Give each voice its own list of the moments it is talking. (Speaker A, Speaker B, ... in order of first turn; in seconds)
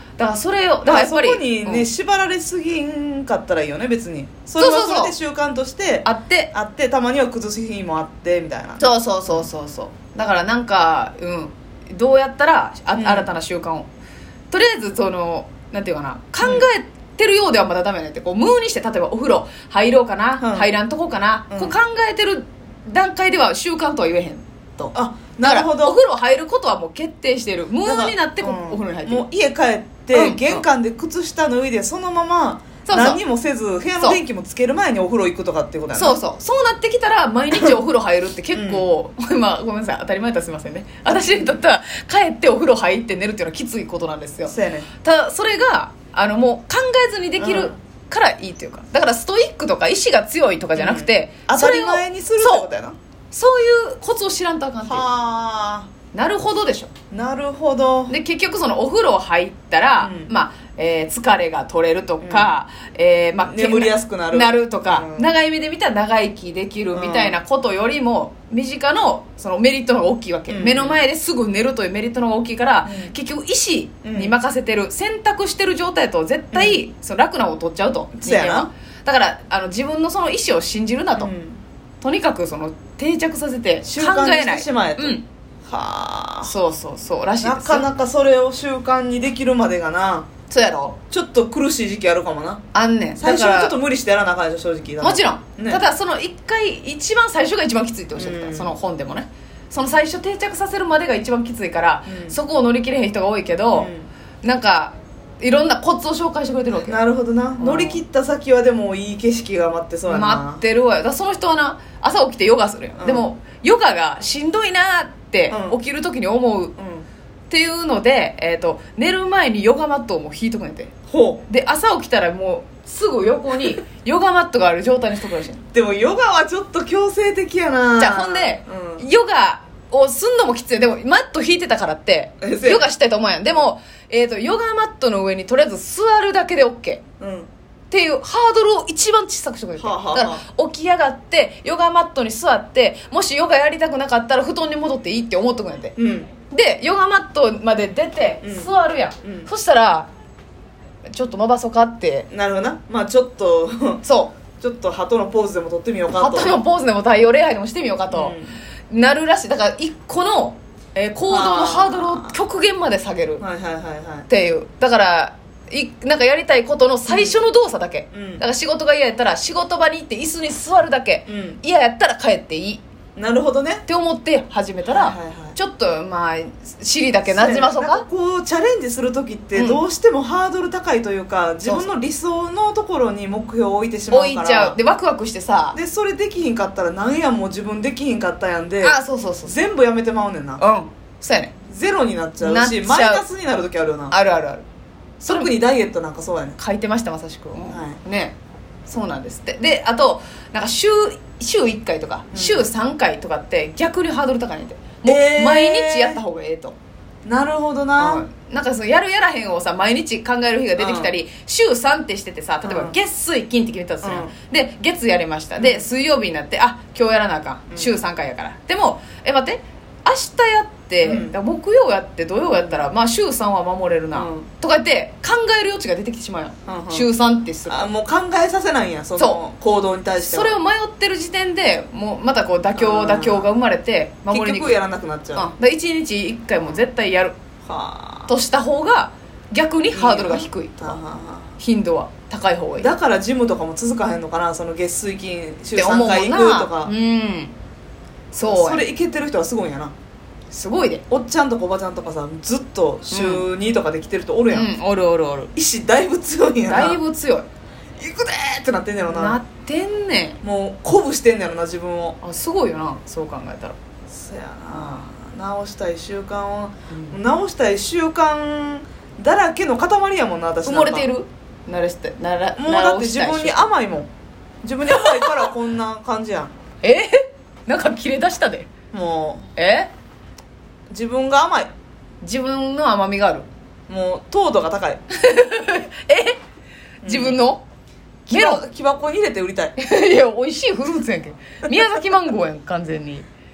Speaker A: 0.2-1.9, 4.6-5.1, 6.0-6.5, 8.8-13.9, 14.5-29.2, 30.1-30.6, 32.8-33.2, 36.0-52.7, 53.3-55.0, 56.1-56.9, 58.1-81.3, 82.0-85.2, 86.4-87.9, 90.5-91.0, 92.7-93.7, 95.0-103.9, 104.4-107.0, 107.6-108.0, 110.1-116.7, 117.5-120.9, 121.5-125.6, 128.0-137.0, 137.9-145.9, 146.5-150.1, 151.1-152.3, 154.0-154.3, 156.1-158.3, 158.9-163.4, 164.3-172.8, 173.8-178.1, 179.5-179.8, 184.1-185.8, 188.8-189.6, 190.6-191.5, 192.4-193.2, 194.1-194.6, 195.2-195.5, 196.6-198.3, 198.9-206.8, 208.0-227.9, 230.2-234.8, 235.3-237.3, 238.3-241.0, 241.6-242.9, 245.7-247.5, 248.3-248.8, 250.5-251.0, 253.1-253.4, 254.5-255.5, 256.6-257.5, 259.1-260.4, 262.2-263.8, 266.9-267.2, 270.6-273.6, 274.9-275.5, 276.8-278.7, 279.6-279.9, 282.2-283.4, 285.1-286.4, 287.0-287.6, 288.3-288.6, 289.8-293.2
Speaker B: 0.8-9.4, 12.9-13.3, 16.4-16.7, 20.4-20.7, 21.5-21.8, 24.9-26.0, 27.8-36.2, 38.5-38.9, 41.1-41.6, 44.4-44.9, 47.4-47.7, 50.7-53.0, 54.8-55.9, 57.1-58.1, 60.0-60.3, 62.2-62.5, 63.4-65.3, 66.9-67.4, 70.5-71.0, 72.8-73.1, 74.0-74.3, 76.5-76.8, 78.2-78.7, 81.2-81.6, 83.8-86.5, 87.4-90.3, 91.1-92.6, 93.2-95.8, 98.1-98.7, 102.1-102.4, 103.7-104.1, 106.7-110.6, 113.0-113.3, 115.5-115.8, 116.8-117.1, 121.1-121.4, 125.7-129.1, 132.4-132.9, 137.2-137.5, 139.8-140.4, 145.9-146.3, 148.4-148.7, 149.2-149.5, 152.3-154.0, 154.6-156.6, 158.1-158.6, 161.3-162.4, 163.4-164.3, 167.1-167.4, 168.1-168.4, 171.3-171.6, 173.2-173.8, 174.8-175.6, 177.2-184.8, 185.7-190.6, 191.7-194.1, 195.2-196.6, 197.7-198.0, 202.3-202.7, 205.0-206.2, 207.2-208.2, 210.8-211.1, 212.6-212.9, 214.0-214.3, 215.6-215.9, 221.0-221.3, 222.5-222.8, 224.1-224.5, 226.7-227.1, 227.7-230.5, 232.7-233.5, 234.3-235.5, 237.6-238.3, 239.9-241.5, 242.8-246.9, 248.4-249.9, 251.1-254.7, 255.5-257.0, 258.0-259.4, 260.4-262.2, 264.1-271.1, 272.6-274.1, 274.6-276.5, 278.9-279.5, 280.9-281.7, 283.9-285.0, 287.0-287.4, 288.3-289.8